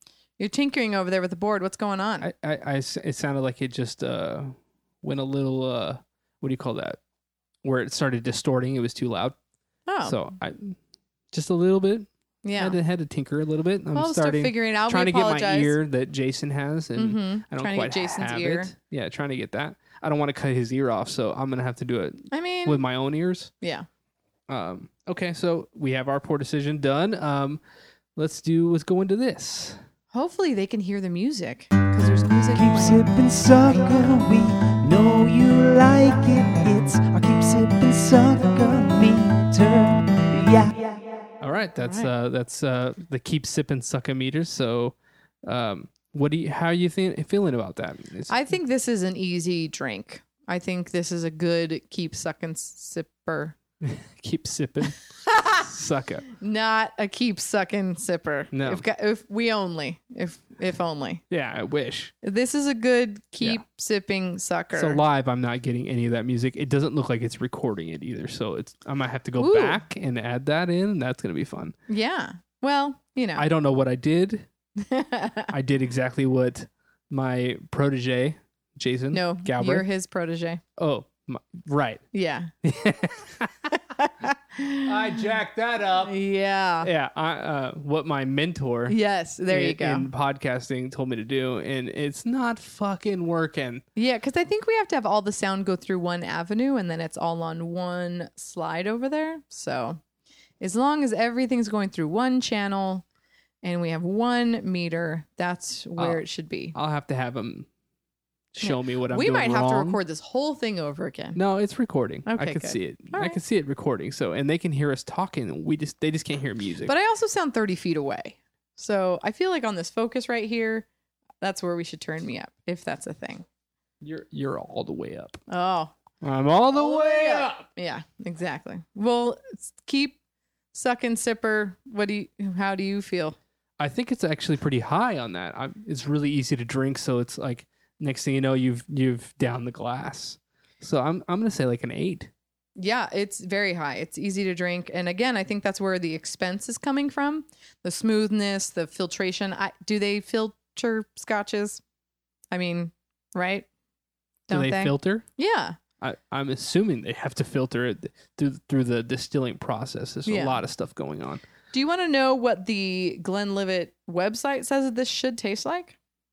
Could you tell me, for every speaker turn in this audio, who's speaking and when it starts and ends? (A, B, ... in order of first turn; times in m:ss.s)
0:00.4-0:02.3 A
0:02.2-0:07.0 B
0:07.6-0:09.4 B
0:09.9-0:10.2 A
0:10.0-0:10.8 B
0:11.3-0:23.5 B
0:12.4-0:12.8 A
0:13.9-0:15.8 A
0:17.0-0:18.7 A
0:22.3-0:22.8 A
0:23.6-0:23.9 A
0:24.5-0:27.6 B
0:28.2-0:29.8 B
0:30.1-0:33.0 A
0:32.5-0:41.0 C
0:33.7-0:34.1 A
0:41.4-0:48.3 B
0:41.8-0:42.1 A
0:48.3-0:53.5 A
0:53.8-0:56.2 B
0:55.3-0:55.6 A
0:56.4-1:01.2 A
0:58.5-0:58.8 B
1:01.3-1:02.1 B
1:02.2-1:05.0 A
1:04.7-1:11.7 B
1:09.4-1:09.8 A
1:11.9-1:13.4 A
1:13.4-1:14.5 B
1:14.8-1:15.5 A
1:15.5-1:19.8 B
1:19.1-1:20.6 A
1:20.8-1:22.0 B
1:22.1-1:22.5 A
1:22.6-1:23.8 B
1:24.0-1:24.9 A
1:24.8-1:26.2 B
1:26.0-1:26.9 A
1:26.8-1:33.8 B
1:28.9-1:30.1 A
1:34.0-1:40.0 A
1:40.6-1:43.0 A
1:43.6-1:46.7 A
1:46.0-1:47.7 B
1:48.5-1:50.0 B
1:48.6-1:51.4 A
1:51.3-1:56.9 B
1:52.2-1:53.4 A
1:56.8-2:00.9 A
2:01.4-2:03.4 A
2:04.0-2:05.4 B
2:05.5-2:05.9 A
2:06.2-2:07.6 B
2:06.7-2:10.2 A
2:10.7-2:13.4 A
2:13.8-2:22.3 B
2:22.8-2:31.8 A
2:32.5-2:33.7 A
2:34.5-2:35.8 A
2:34.5-2:35.2 B
2:36.0-2:41.4 B
2:40.2-2:40.6 A
2:41.7-2:46.0 A